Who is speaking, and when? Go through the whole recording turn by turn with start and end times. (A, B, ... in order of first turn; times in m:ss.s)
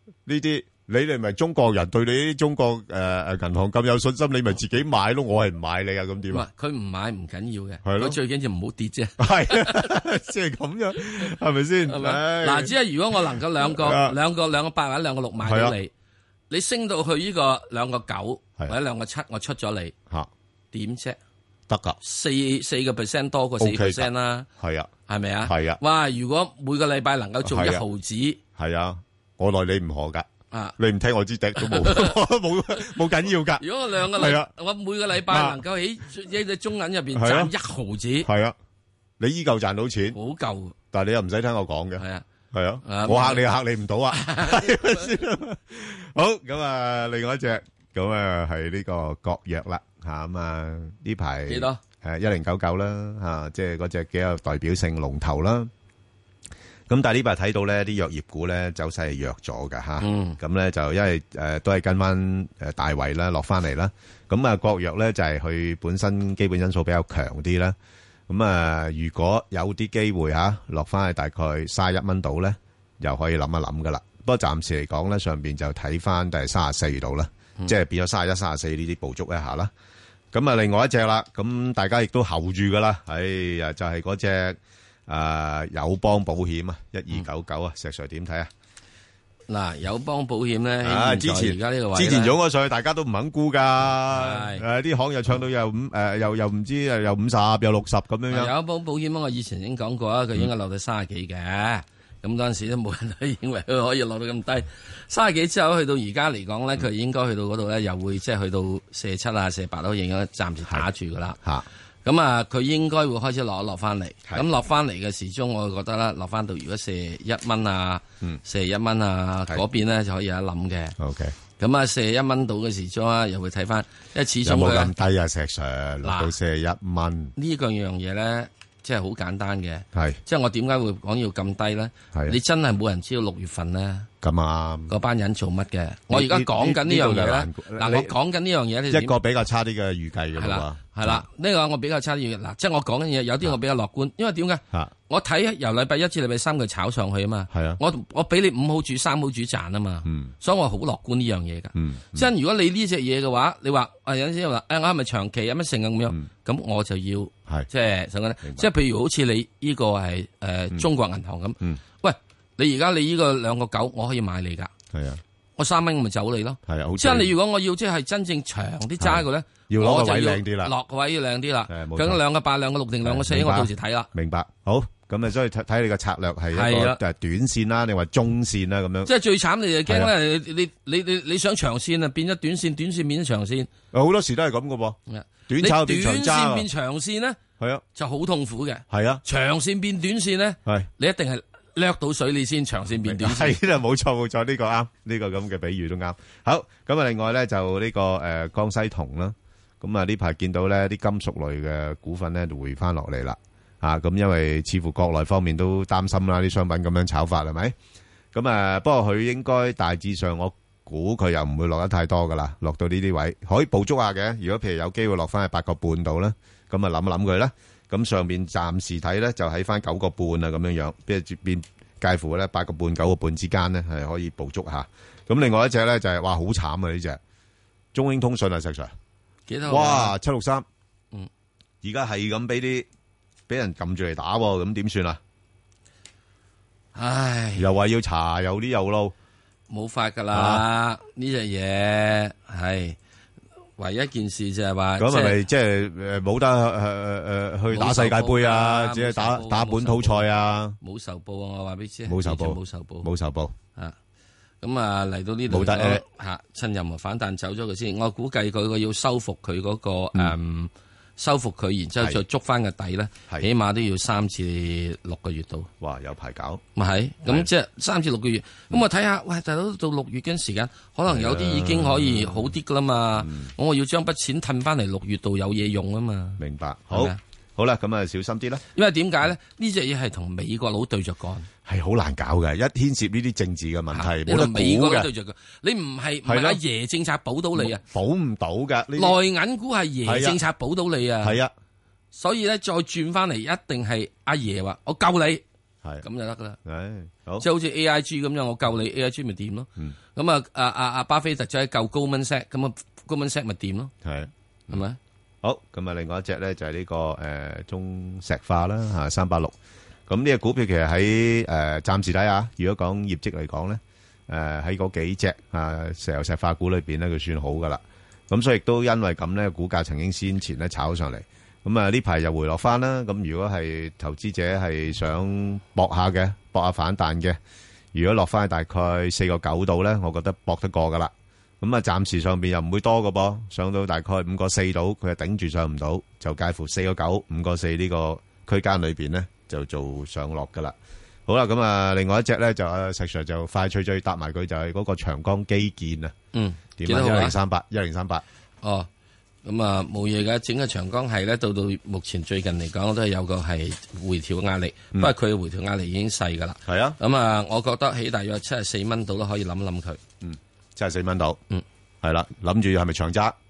0:00.3-0:06.5 A
0:06.3-0:10.0 B
0:07.8-0:08.2 A
0:09.2-0:14.2 A
0:11.0-0:11.3 B
0:11.9-0:15.9 B
0:15.4-0:15.8 A
0:16.5-0:19.9 B
0:20.7-0:21.2 B
0:21.7-0:22.0 A
0:22.0-0:24.5 B
0:23.6-0:24.9 A
0:25.1-0:28.4 B
0:25.4-0:25.8 A
0:27.4-0:27.8 A
0:28.6-0:30.3 A
0:30.5-0:30.8 B
0:30.8-0:34.5 A
0:31.6-0:32.2 B
0:33.6-0:38.3 B
0:35.2-0:35.6 A
0:37.2-0:37.5 A
0:38.2-0:38.6 A
0:39.2-0:40.2 A
0:40.1-0:40.8 B
0:40.9-0:55.7 A
0:42.0-0:42.2 B
0:42.8-0:43.5 B
0:44.1-0:45.1 B
0:51.5-0:51.8 B
0:56.9-1:07.8 A
1:00.0-1:00.4 B
1:08.3-1:19.7 A
1:20.3-1:28.5 A
1:29.5-1:32.4 B
1:30.8-1:38.5 A
1:34.1-1:34.6 B
1:38.3-1:51.4 B
1:52.0-2:01.0 B
2:01.0-2:01.4 A
2:01.6-2:04.9 B
2:04.4-2:07.4 A
2:06.0-2:06.3 B
2:07.4-2:14.1 B
2:09.9-2:10.2 A
2:14.2-2:14.9 A
2:14.9-2:19.2 B
2:16.1-2:18.1 A
2:18.9-2:21.3 A
2:20.4-2:44.7 B
2:27.5-2:27.8 A
2:30.0-2:30.3 A
2:31.8-2:32.3 A
2:38.4-2:38.7 A
2:44.9-2:45.2 A
2:45.6-2:54.1 B
2:46.7-2:47.3 A
2:49.0-2:50.7 A
2:51.7-2:52.2 A
2:53.0-2:59.1 A
2:56.5-2:57.0 B
2:59.0-3:03.7 B
2:59.9-3:00.1 A
3:03.9-3:05.0 A
3:05.1-3:07.4 B
3:05.5-3:06.7 A
3:07.6-3:07.8 A
3:08.0-3:13.6 B
3:08.9-3:09.2 A
3:13.0-3:27.8 A
3:28.3-3:47.2 A
3:47.9-3:48.9 A
3:49.5-3:50.2 B
3:49.7-3:50.7 A
3:51.8-3:52.9 A
3:53.5-3:55.2 A
3:57.0-3:57.7 B
3:57.6-3:59.1 A
3:59.7-4:03.0 B
4:00.3-4:00.6 A
4:03.8-4:05.4 B
4:05.0-4:10.8 A
4:07.7-4:10.3 B
4:10.8-4:13.1 B
4:12.1-4:13.6 A
4:14.6-4:25.7 B
4:15.5-4:16.0 A
4:25.8-4:26.6 A
4:26.8-4:37.2 B
4:31.1-4:32.5 A
4:33.2-4:33.5 A
4:36.4-4:38.6 A
4:38.7-4:41.5 B
4:41.6-4:45.1 A
4:43.9-4:47.8 B
4:46.2-4:46.6 A
4:47.6-4:49.2 A
4:49.0-4:51.4 B
4:50.0-4:50.4 A
4:51.2-4:51.5 A
4:52.1-4:55.4 B
4:56.0-4:56.6 B
4:56.6-4:57.5 A
4:57.4-5:03.9 B
5:04.0-5:04.8 A
5:04.7-5:05.0 B
5:05.4-5:09.6 A
5:10.1-5:27.4 A
5:27.9-5:40.8 A
5:41.3-5:46.1 A
5:46.3-5:47.4 B
5:46.8-5:48.2 A
5:48.6-5:48.9 B
5:49.4-6:00.0 B
5:56.7-5:57.0 A
6:00.2-6:01.4 A
6:02.0-6:03.4 A